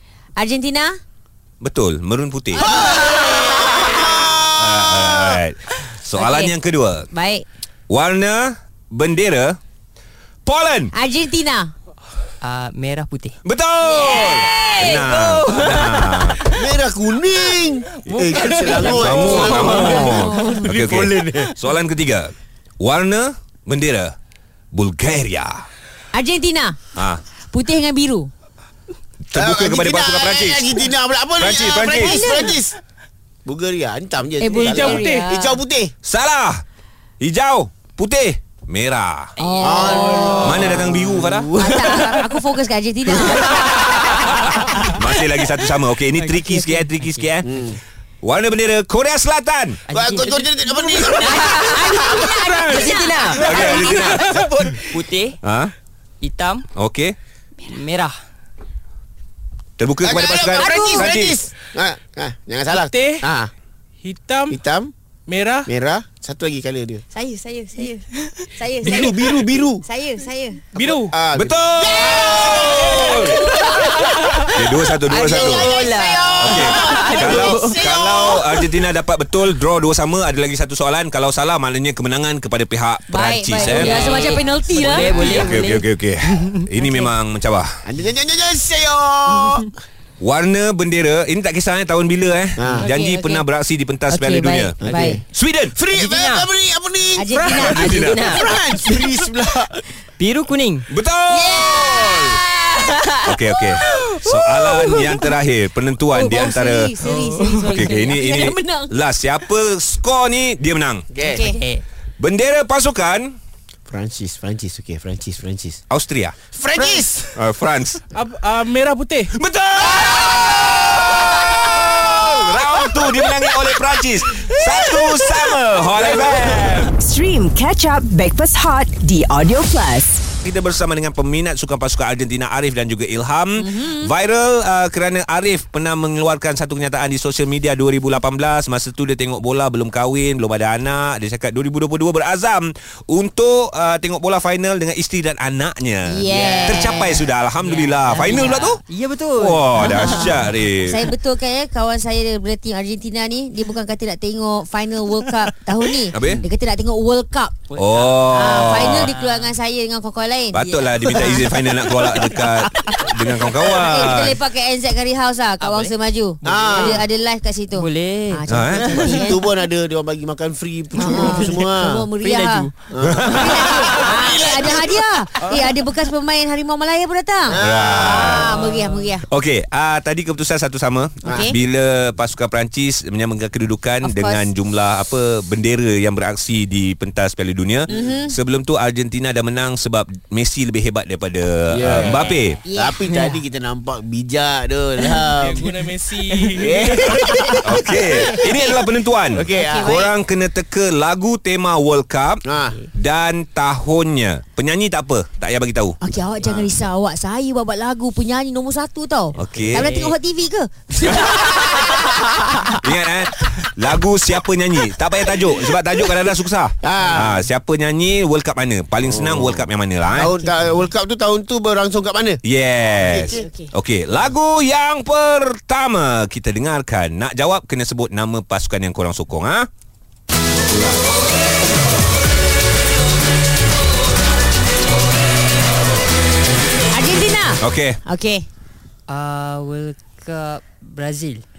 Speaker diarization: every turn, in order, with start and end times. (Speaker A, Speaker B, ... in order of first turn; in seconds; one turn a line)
Speaker A: 0.4-0.9
Speaker B: 1.6-2.7
Speaker A: 2.5-4.0
Speaker C: 2.6-5.4
Speaker B: 3.2-7.1
Speaker A: 6.1-6.5
Speaker A: 7.1-7.4
Speaker B: 7.9-9.6
Speaker B: 10.4-10.9
Speaker A: 10.9-11.7
Speaker D: 12.4-13.4
Speaker B: 13.4-16.4
Speaker A: 13.8-15.6
Speaker D: 14.6-16.4
Speaker C: 16.5-21.5
Speaker D: 18.2-20.1
Speaker E: 18.4-18.9
Speaker B: 18.9-24.1
Speaker A: 19.1-20.6
Speaker B: 24.7-25.7
Speaker A: 26.1-26.8
Speaker B: 26.9-27.2
Speaker A: 27.5-28.3
Speaker B: 29.3-30.8
Speaker C: 29.3-32.8
Speaker B: 31.4-32.2
Speaker A: 32.0-32.6
Speaker C: 33.4-35.9
Speaker A: 34.4-35.6
Speaker E: 34.5-35.3
Speaker B: 36.0-36.6
Speaker B: 37.2-39.3
Speaker D: 39.4-40.3
Speaker A: 39.4-40.5
Speaker C: 39.6-42.2
Speaker E: 40.1-40.7
Speaker B: 40.4-41.8
Speaker A: 41.6-44.0
Speaker B: 43.5-47.5
Speaker D: 46.1-47.3
Speaker C: 47.4-47.8
Speaker B: 48.2-49.8
Speaker D: 49.9-53.6
Speaker C: 49.9-52.3
Speaker A: 51.2-53.4
Speaker B: 53.4-54.3
Speaker C: 53.4-55.0
Speaker E: 53.6-54.4
Speaker D: 54.9-55.4
Speaker B: 55.4-55.7
Speaker D: 56.2-56.6
Speaker B: 56.8-57.1
Speaker D: 57.6-58.1
Speaker B: 59.8-61.4
Speaker C: 60.0-63.5
Speaker A: 60.6-61.1
Speaker E: 62.7-63.3
Speaker E: 64.0-64.6
Speaker C: 64.5-64.9
Speaker E: 65.3-65.7
Speaker C: 65.7-67.0
Speaker A: 67.1-70.6
Speaker C: 68.8-69.8
Speaker E: 70.7-71.2
Speaker C: 70.8-74.5
Speaker B: 71.3-73.4
Speaker A: 73.3-74.0
Speaker B: 74.4-75.7
Speaker C: 75.1-78.4
Speaker D: 75.1-77.8
Speaker A: 75.1-78.1
Speaker B: 76.4-84.3
Speaker A: 83.1-85.5
Speaker D: 83.6-86.6
Speaker B: 85.0-87.8
Speaker A: 86.8-87.1
Speaker C: 87.8-89.7
Speaker B: 90.2-94.8
Speaker C: 92.6-92.8
Speaker A: 92.7-93.4
Speaker A: 94.1-95.2
Speaker C: 94.8-99.7
Speaker D: 94.9-95.1
Speaker B: 95.3-95.8
Speaker D: 95.9-96.5
Speaker A: 97.2-98.1
Speaker B: 97.5-98.3
Speaker D: 97.5-98.5
Speaker D: 100.2-100.8
Speaker B: 100.9-102.4
Speaker A: 101.3-105.2
Speaker B: 103.2-111.0
Speaker A: 106.1-108.9
Speaker D: 107.0-108.1
Speaker C: 111.1-111.4
Speaker A: 111.2-111.6
Speaker D: 111.3-111.8
Speaker B: 112.2-113.4
Speaker C: 113.9-115.8
Speaker B: 115.9-116.3
Speaker C: 116.5-117.3
Speaker A: 116.7-117.0
Speaker B: 117.3-118.0
Speaker E: 118.1-119.3
Speaker B: 119.3-126.9
Speaker C: 119.8-123.1
Speaker C: 126.1-126.7
Speaker F: 127.0-130.2
Speaker B: 130.4-148.8
Speaker A: 133.6-134.1
Speaker A: 146.1-147.2
Speaker D: 146.3-150.5
Speaker B: 149.3-151.0
Speaker A: 149.8-157.6
Speaker B: 156.1-156.4
Speaker D: 157.7-159.5
Speaker B: 157.8-159.1
Speaker A: 158.3-160.6
Speaker B: 160.5-164.4
Speaker D: 160.6-161.4
Speaker A: 163.5-169.5
Speaker D: 165.6-167.0
Speaker C: 166.4-167.0
Speaker D: 167.7-169.1
Speaker B: 168.5-169.0
Speaker C: 168.9-172.1
Speaker D: 170.9-171.6
Speaker A: 171.0-179.3
Speaker D: 172.2-172.7
Speaker C: 172.9-175.1
Speaker B: 173.0-173.6
Speaker C: 177.5-178.5
Speaker B: 177.6-178.6
Speaker D: 178.2-179.1
Speaker B: 179.3-192.6
Speaker A: 181.2-181.5
Speaker A: 184.0-184.5
Speaker A: 187.9-188.3
Speaker C: 191.7-195.8
Speaker D: 191.9-192.6
Speaker A: 192.7-193.4
Speaker E: 195.3-197.1
Speaker C: 196.5-198.5
Speaker A: 197.3-198.8
Speaker B: 197.6-202.4
Speaker C: 199.3-200.0
Speaker A: 199.5-200.1
Speaker C: 202.4-202.8
Speaker B: 202.9-206.0
Speaker A: 206.0-212.6
Speaker C: 206.4-206.7
Speaker B: 209.3-209.8
Speaker D: 209.3-210.1
Speaker B: 211.1-220.3
Speaker C: 216.8-217.4
Speaker C: 219.0-222.4
Speaker A: 220.1-220.9
Speaker B: 222.4-229.7
Speaker C: 222.9-223.4
Speaker A: 223.3-223.7
Speaker B: 230.7-231.0
Speaker A: 236.9-238.4
Speaker B: 237.6-238.0
Speaker D: 239.1-241.4